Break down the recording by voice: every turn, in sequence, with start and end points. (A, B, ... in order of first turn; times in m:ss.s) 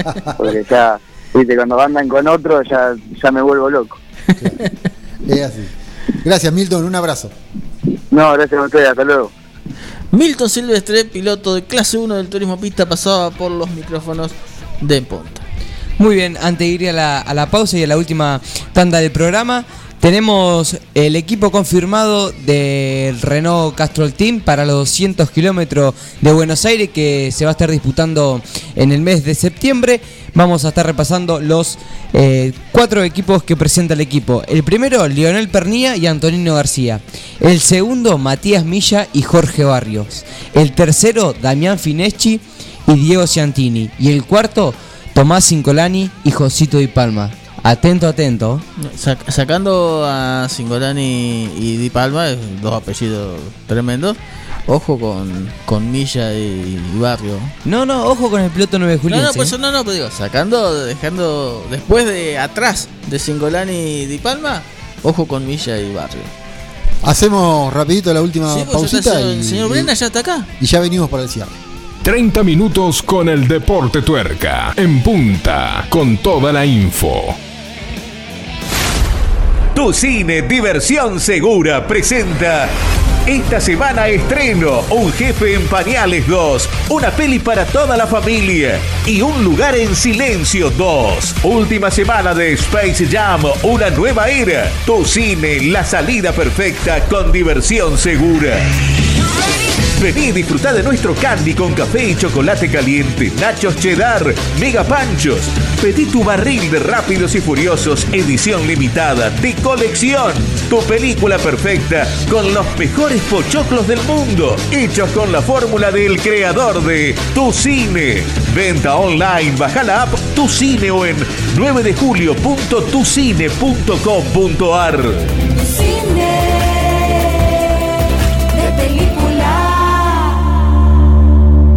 0:00.4-0:04.0 A
0:05.2-0:07.3 B
0:08.1-0:09.3 A
0:10.1-0:15.4 C
0:16.0-0:48.6 D
0:48.8-0:57.5 C
0:57.6-0:59.5 D
0:59.1-1:06.3 C
1:07.0-1:09.9 B
1:08.5-1:10.5 C
1:10.6-1:11.5 B
1:12.0-1:17.4 E
1:19.7-1:22.7 F
1:23.2-1:38.6 F
1:39.9-2:05.3 F
2:05.7-2:07.2 G
2:08.5-2:10.2 G